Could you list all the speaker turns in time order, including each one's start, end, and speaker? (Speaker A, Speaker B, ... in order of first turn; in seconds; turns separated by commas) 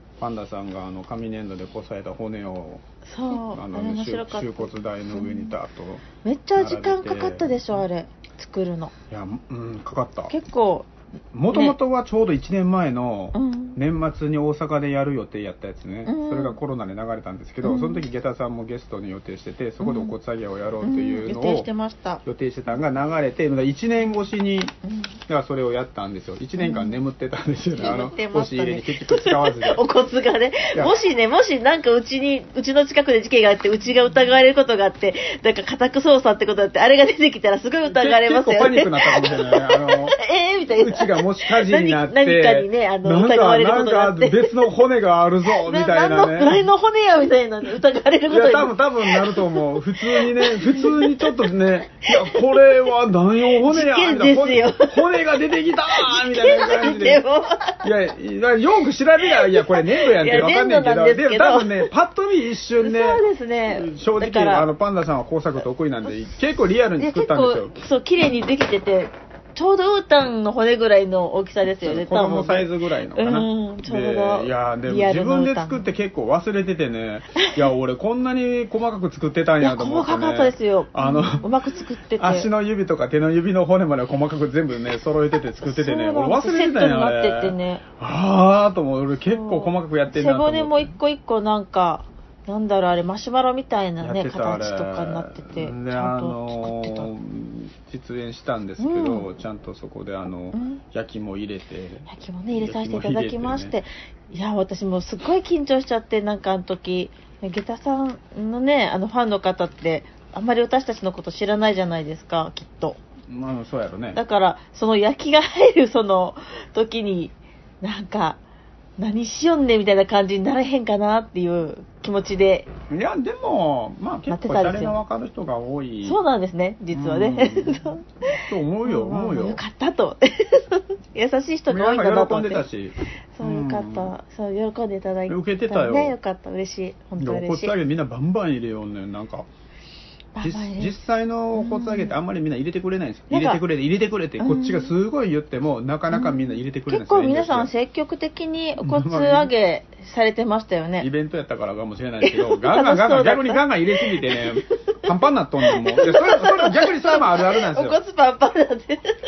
Speaker A: 0.2-7.8, Speaker B: 3.0-5.5, Speaker B: 6.2-8.9, Speaker A: 9.1-10.3, Speaker B: 10.3-10.9, Speaker A: 11.3-21.7, Speaker B: 11.5-11.8, Speaker B: 13.3-13.8, Speaker B: 16.1-16.6, Speaker B: 17.6-18.0, Speaker B: 19.8-20.1, Speaker B: 20.8-22.2, Speaker A: 22.2-24.7, Speaker B: 24.9-25.1, Speaker A: 25.3-29.8, Speaker B: 26.6-27.0, Speaker B: 27.8-44.7, Speaker A: 37.9-40.2, Speaker A: 40.8-46.6, Speaker B: 45.5-51.3, Speaker A: 48.3-57.2, Speaker B: 52.1-52.7, Speaker B: 53.6-55.2, Speaker B: 55.9-57.8, Speaker A: 57.8-67.8, Speaker B: 59.2-61.9, Speaker B: 62.8-64.7, Speaker B: 67.0-75.8, Speaker A: 71.8-81.5, Speaker B: 77.4-77.6, Speaker B: 79.6-82.5, Speaker A: 82.2-91.0, Speaker B: 85.6-87.8, Speaker B: 89.3-97.1, Speaker A: 94.0-103.7, Speaker B: 98.8-99.3, Speaker B: 100.5-100.8, Speaker B: 102.1-113.0, Speaker A: 113.3-114.2, Speaker B: 114.1-118.4, Speaker B: 119.0-122.7, Speaker A: 122.9-126.2, Speaker B: 124.3-125.0, Speaker B: 126.0-132.7, Speaker A: 126.9-129.6, Speaker A: 131.7-134.1, Speaker B: 133.3-137.7, Speaker A: 135.3-136.2, Speaker A: 137.2-139.5, Speaker B: 140.3-140.9, Speaker A: 140.4-147.7, Speaker B: 141.5-142.2, Speaker B: 143.3-143.6, Speaker B: 144.4-144.9, Speaker B: 146.1-151.1, Speaker A: 148.8-149.5, Speaker A: 151.0-158.0, Speaker B: 152.2-154.4, Speaker B: 155.6-159.2